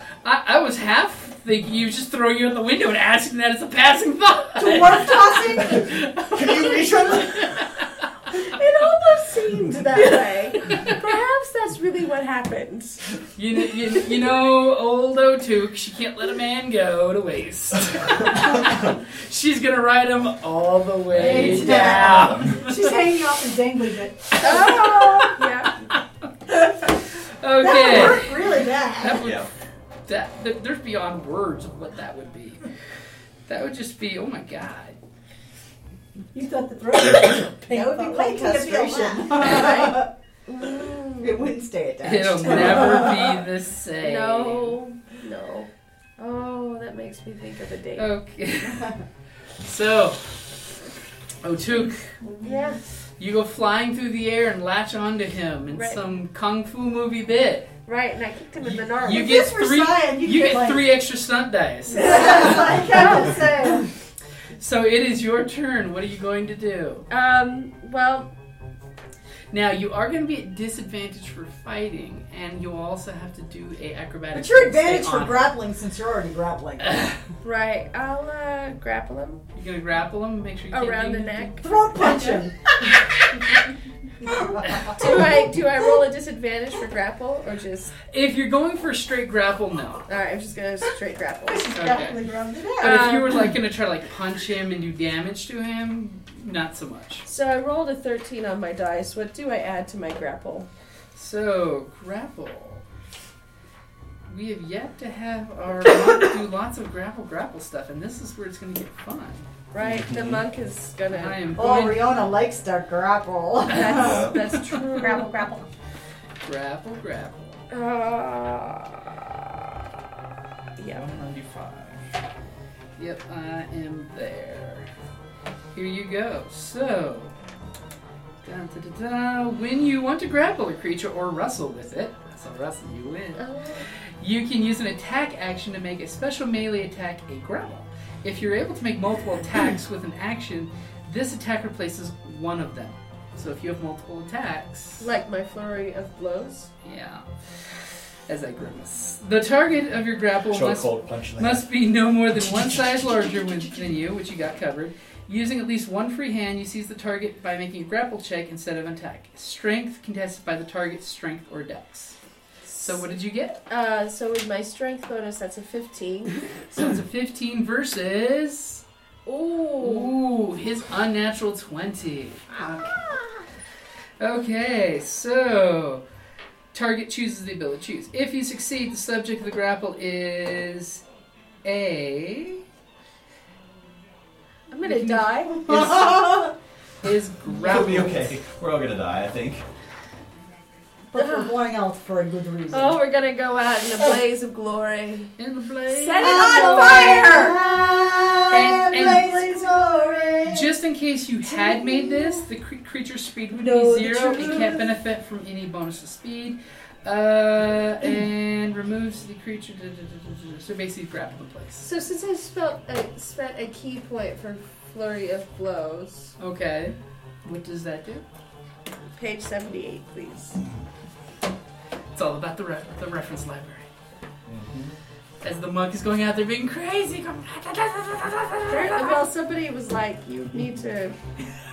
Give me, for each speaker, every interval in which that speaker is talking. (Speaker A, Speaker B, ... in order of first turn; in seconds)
Speaker A: 0.2-7.8, 13.3-22.9, 24.4-25.2, 27.4-29.4, 30.1-32.6, 33.5-35.0, 42.0-44.8, 48.0-48.9, 49.6-50.4, 51.4-52.1, 53.2-57.7, 59.0-62.7, 64.6-67.0, 69.5-75.5, 76.9-77.1, 79.5-81.6, 88.1-90.0, 91.7-92.2, 92.8-97.2, 101.1-102.8, 104.3-109.5, 111.1-112.2, 113.7-114.0, 116.4-117.6, 123.0-124.9, 125.7-127.3, 128.4-133.4, 134.2-145.0, 146.8-147.2, 148.3-162.2, 162.8-163.6, 166.7-168.8, 169.8-172.4, 174.2-176.0, 176.7-181.0, 181.6-182.6, 187.0-188.4, 195.4-197.3, 198.5-199.5, 200.4-211.9, 216.4-218.2, 222.1-223.8, 225.4-229.3
Speaker B: 4.6-5.8, 21.2-25.4, 27.6-29.2, 36.3-40.0, 59.1-60.9, 61.9-63.8, 82.0-82.4, 91.5-93.1, 115.0-115.6, 184.9-185.3, 201.4-202.4, 203.5-204.9
Speaker C: 5.7-7.6, 21.2-22.6, 29.1-29.5, 109.8-110.5, 113.9-114.4, 120.9-122.0, 150.5-151.7, 152.5-152.8, 187.5-189.6, 224.4-224.9
Speaker D: 8.3-13.0, 24.4-25.8, 39.1-41.5, 44.0-48.1, 52.4-52.8, 55.7-56.0, 57.9-59.5, 61.9-62.6, 67.1-68.3, 77.4-79.4, 80.7-81.7, 84.9-87.9, 90.1-91.7, 92.8-93.5, 97.2-100.7, 109.7-111.5, 113.7-115.4, 117.7-119.0, 120.8-121.1, 133.3-133.9, 145.0-146.7, 163.7-166.4, 169.2-170.2, 172.9-173.4, 184.7-186.1, 191.2-191.6, 192.7-195.3, 195.9-197.6, 211.8-216.3, 219.1-220.6, 228.7-231.2
Speaker E: 21.2-22.3, 37.7-40.1, 41.2-43.2, 62.0-63.9, 74.3-77.1, 81.6-82.6, 84.3-84.6, 111.5-114.3, 172.5-173.0, 185.7-186.3, 191.1-193.0, 196.2-200.7